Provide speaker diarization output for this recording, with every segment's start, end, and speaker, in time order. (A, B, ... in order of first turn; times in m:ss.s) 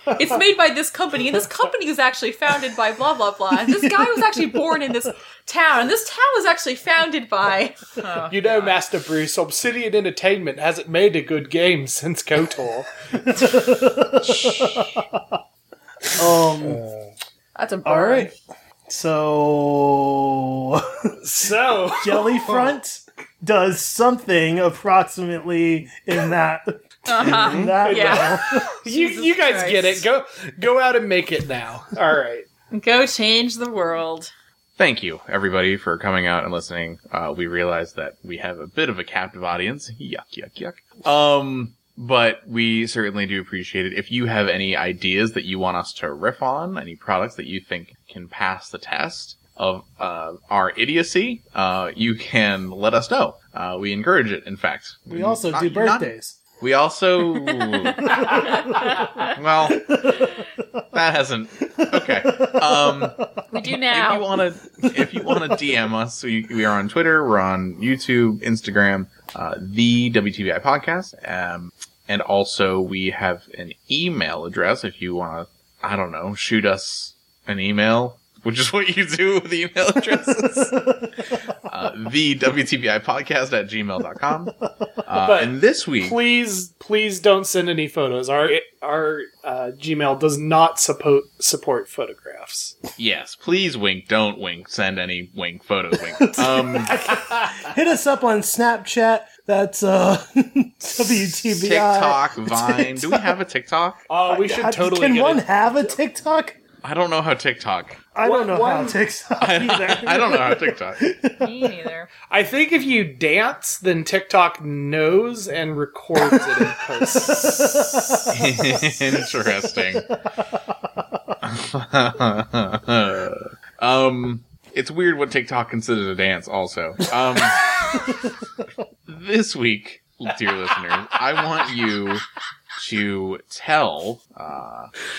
0:00.1-0:08.8 A
0:04.0-0:04.4 B
0:08.3-0:12.9 C
0:13.3-0:15.2 B
0:14.3-0:14.8 C
0:16.2-0:16.8 B
0:16.6-0:17.1 C
0:17.5-0:18.3 A
0:17.8-0:18.3 B
0:18.9-0:21.1 B
0:21.2-0:22.8 C
0:22.0-0:28.8 B
0:27.0-0:30.1 A
0:27.2-0:27.8 D
0:27.9-0:32.4 C
0:32.7-0:34.3 A
0:34.8-0:58.2 D
0:55.1-0:56.4 B
0:58.0-1:00.4 B
0:59.3-1:00.0 D
1:00.9-1:20.8 D
1:01.8-1:03.1 B
1:03.5-1:04.3 A
1:04.8-1:05.5 B
1:21.6-1:24.5 D
1:25.0-1:26.2 D
1:25.2-1:32.8 C
1:33.0-1:36.9 D
1:36.2-1:43.3 B
1:37.0-1:37.6 C
1:41.0-1:44.0 D
1:44.1-1:45.4 C
1:44.2-1:46.6 B
1:46.8-1:48.0 D
1:48.1-1:51.7 B
1:48.2-1:49.0 C
1:49.4-1:51.0 D
1:51.4-1:52.1 A
1:52.3-1:57.9 C
1:57.2-1:59.0 B
1:58.3-2:00.1 D
2:01.4-2:07.8 D
2:09.1-2:12.2 D
2:12.8-2:14.9 D